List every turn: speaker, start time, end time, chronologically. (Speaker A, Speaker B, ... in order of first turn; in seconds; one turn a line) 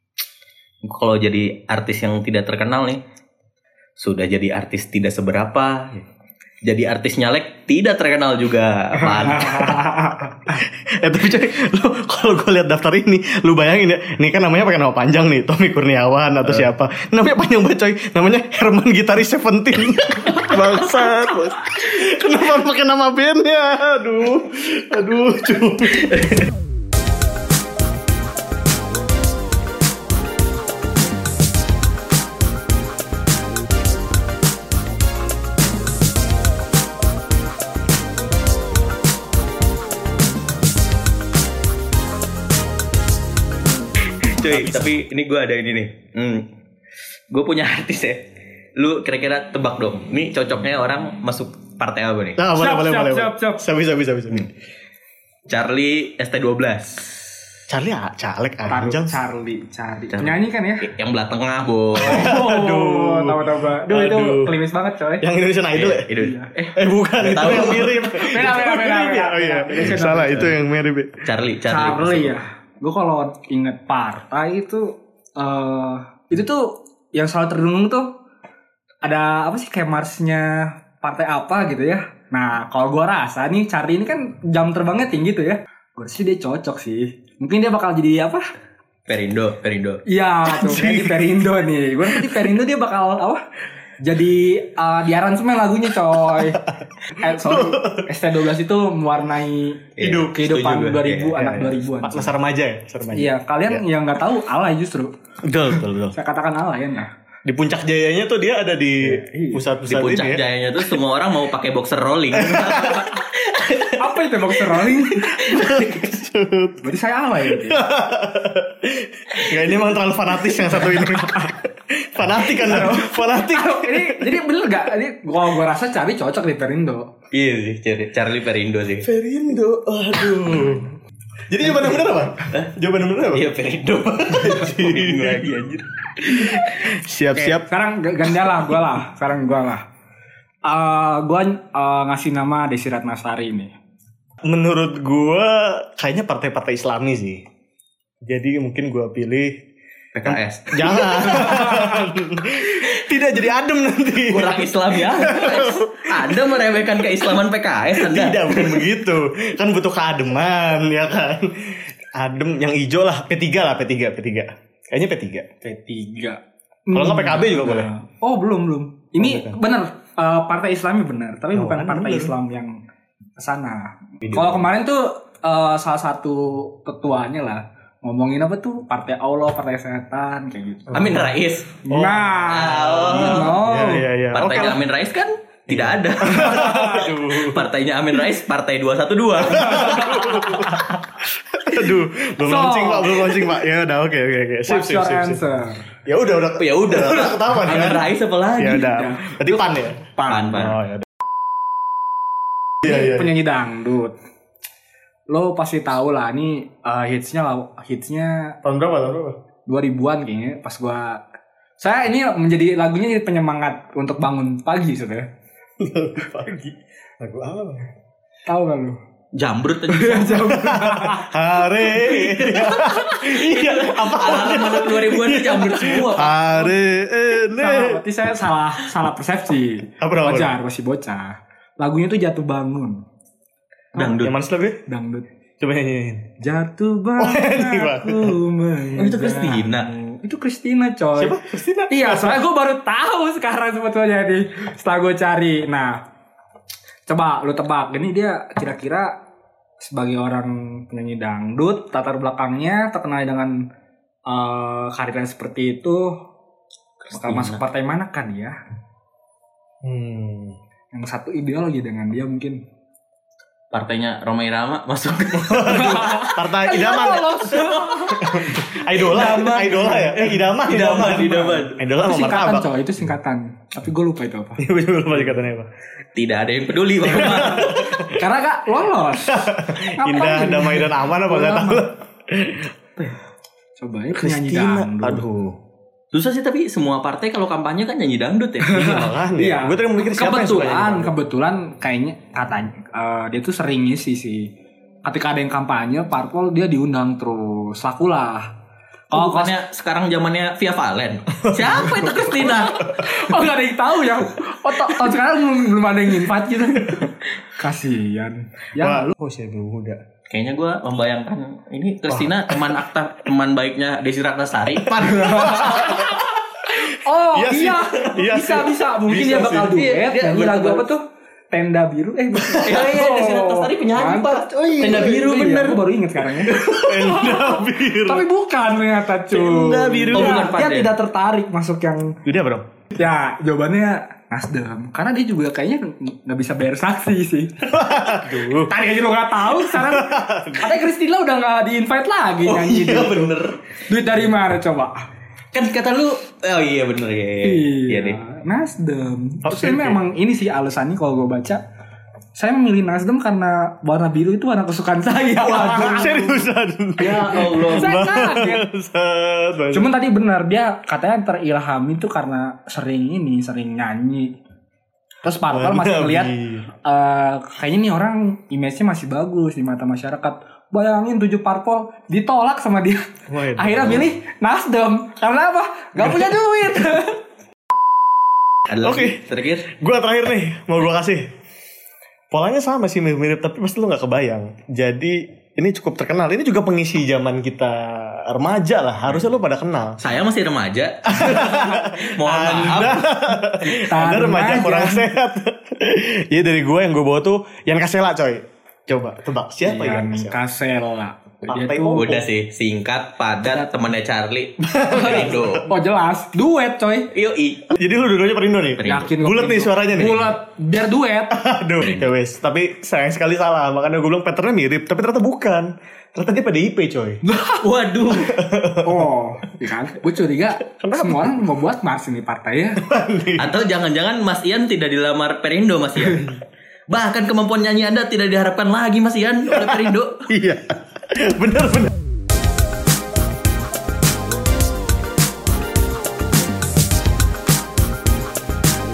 Speaker A: 0.9-3.0
Speaker A: 4.0-6.1
Speaker A: 6.6-9.8
Speaker B: 9.2-10.5
Speaker C: 10.5-26.3
Speaker A: 26.0-26.5
Speaker A: 44.2-46.5
Speaker C: 44.5-44.9
Speaker A: 47.3-52.4
Speaker C: 52.4-54.5
Speaker B: 52.5-53.6
Speaker A: 55.5-57.2
Speaker C: 57.7-59.1
Speaker B: 58.7-60.9
Speaker A: 60.1-62.3
Speaker C: 62.0-64.5
Speaker B: 62.0-65.3
Speaker C: 65.2-66.1
Speaker A: 65.7-68.2
Speaker B: 66.2-66.5
Speaker C: 66.8-71.2
Speaker B: 68.1-70.6
Speaker A: 71.2-72.4
Speaker B: 71.7-74.9
Speaker B: 75.4-78.1
Speaker B: 79.0-88.4
Speaker A: 89.1-90.0
Speaker B: 90.1-93.4
Speaker C: 90.5-91.4
Speaker C: 92.1-92.4
Speaker B: 94.0-96.6
Speaker B: 97.1-102.3
Speaker C: 97.2-98.1
Speaker A: 100.0-101.5
Speaker C: 100.0-100.4
Speaker C: 101.4-103.8
Speaker B: 103.1-105.1
Speaker C: 105.4-106.2
Speaker B: 105.7-107.1
Speaker C: 107.5-110.4
Speaker B: 109.0-109.7
Speaker A: 109.8-114.0
Speaker C: 112.3-113.1
Speaker B: 114.0-115.8
Speaker C: 115.4-116.9
Speaker B: 116.8-117.8
Speaker C: 117.4-124.3
Speaker B: 120.6-121.3
Speaker B: 122.5-127.1
Speaker A: 127.3-129.1
Speaker C: 129.0-130.9
Speaker C: 131.5-133.5
Speaker A: 133.3-136.6
Speaker C: 134.3-135.5
Speaker C: 136.3-137.7
Speaker B: 137.4-139.8
Speaker B: 140.7-143.7
Speaker C: 144.4-147.4
Speaker C: 148.2-149.6
Speaker A: 150.1-151.7
Speaker C: 150.2-156.4
Speaker B: 151.4-151.9
Speaker A: 154.3-158.8
Speaker C: 157.9-165.5
Speaker B: 165.6-172.7
Speaker C: 166.9-167.9
Speaker C: 169.2-169.6
Speaker C: 171.5-172.3
Speaker B: 173.4-181.1
Speaker C: 174.2-174.7
Speaker A: 180.9-181.8
Speaker C: 181.0-181.3
Speaker B: 181.8-184.1
Speaker C: 181.9-184.8
Speaker A: 182.4-183.6
Speaker A: 184.3-190.1
Speaker C: 185.7-187.7
Speaker B: 186.5-186.9
Speaker C: 189.4-195.4
Speaker B: 189.8-190.6
Speaker B: 192.4-193.5
Speaker B: 194.7-195.8
Speaker C: 196.1-201.1
Speaker A: 196.6-198.9
Speaker B: 198.8-199.6
Speaker B: 200.2-200.7
Speaker A: 200.3-200.8
Speaker B: 202.8-204.1
Speaker C: 202.8-203.3
Speaker B: 205.3-208.6
Speaker C: 208.6-209.4
Speaker B: 209.7-211.2
Speaker B: 211.8-215.3
Speaker C: 215.8-217.9
Speaker B: 218.5-219.0
Speaker A: 219.3-220.5
Speaker B: 219.9-221.3
Speaker C: 220.4-229.0
Speaker B: 221.9-222.8
Speaker A: 223.1-226.3
Speaker B: 226.2-226.7
Speaker B: 227.6-233.0
Speaker C: 230.0-230.6
Speaker A: 233.9-234.3
Speaker C: 234.1-234.8
Speaker B: 234.9-235.3
Speaker C: 235.6-236.3
Speaker B: 236.4-241.4
Speaker C: 237.2-238.4
Speaker A: 239.0-239.9
Speaker C: 241.2-242.4
Speaker B: 241.9-246.0
Speaker B: 247.1-249.1
Speaker B: 249.8-253.5
Speaker B: 254.3-256.1
Speaker A: 257.0-257.6
Speaker B: 257.1-258.6
Speaker C: 259.8-260.6
Speaker B: 260.9-262.6
Speaker A: 263.7-266.3
Speaker C: 265.5-272.8
Speaker B: 265.6-270.4
Speaker A: 267.5-268.0
Speaker A: 270.5-271.8
Speaker B: 270.9-274.6
Speaker C: 274.6-275.7
Speaker A: 276.1-278.0
Speaker C: 277.1-278.2
Speaker B: 277.7-281.9
Speaker C: 279.2-282.7
Speaker B: 283.8-285.2
Speaker C: 284.1-285.6
Speaker A: 286.1-288.8
Speaker B: 288.6-294.5
Speaker C: 288.7-291.1
Speaker B: 295.1-298.5
Speaker B: 299.1-299.6
Speaker A: 299.1-303.0
Speaker C: 301.4-302.2
Speaker B: 302.2-309.1
Speaker C: 308.8-310.0
Speaker A: 310.3-316.0
Speaker C: 312.1-312.7
Speaker C: 314.8-316.3
Speaker B: 315.0-316.2
Speaker B: 316.9-321.0
Speaker C: 317.1-319.8
Speaker A: 319.6-320.9
Speaker B: 321.5-332.1
Speaker C: 322.4-322.9
Speaker A: 322.6-325.8
Speaker C: 326.5-328.3
Speaker A: 329.4-331.0
Speaker C: 329.8-330.4
Speaker C: 332.2-332.7
Speaker B: 332.9-343.3
Speaker C: 337.7-338.7
Speaker C: 339.5-340.7
Speaker C: 342.4-343.4
Speaker A: 342.8-343.6
Speaker B: 343.9-345.0
Speaker A: 345.5-348.2
Speaker B: 347.4-351.6
Speaker C: 349.4-350.0
Speaker B: 352.4-356.5
Speaker A: 355.4-356.1
Speaker C: 355.5-359.9
Speaker A: 357.0-358.0
Speaker B: 357.4-358.6
Speaker B: 359.7-364.3
Speaker B: 365.2-373.0
Speaker C: 365.5-366.7
Speaker C: 373.3-374.1
Speaker B: 373.6-377.2
Speaker A: 378.7-379.7
Speaker C: 378.8-381.3
Speaker C: 382.3-390.0
Speaker A: 390.0-393.0
Speaker C: 391.1-400.4
Speaker B: 393.7-395.1
Speaker B: 399.6-402.2
Speaker C: 401.5-402.2
Speaker A: 401.9-405.7
Speaker B: 403.4-403.7
Speaker C: 404.6-405.6
Speaker B: 404.9-407.1
Speaker A: 407.1-407.8
Speaker C: 407.7-410.4
Speaker A: 408.8-409.1
Speaker B: 408.9-411.4
Speaker C: 411.3-417.2
Speaker B: 417.3-417.6
Speaker A: 417.6-418.4
Speaker C: 418.3-419.1
Speaker B: 418.8-422.8
Speaker C: 420.8-421.4
Speaker C: 422.8-423.6
Speaker A: 423.4-426.4
Speaker A: 426.9-430.3
Speaker C: 429.5-431.9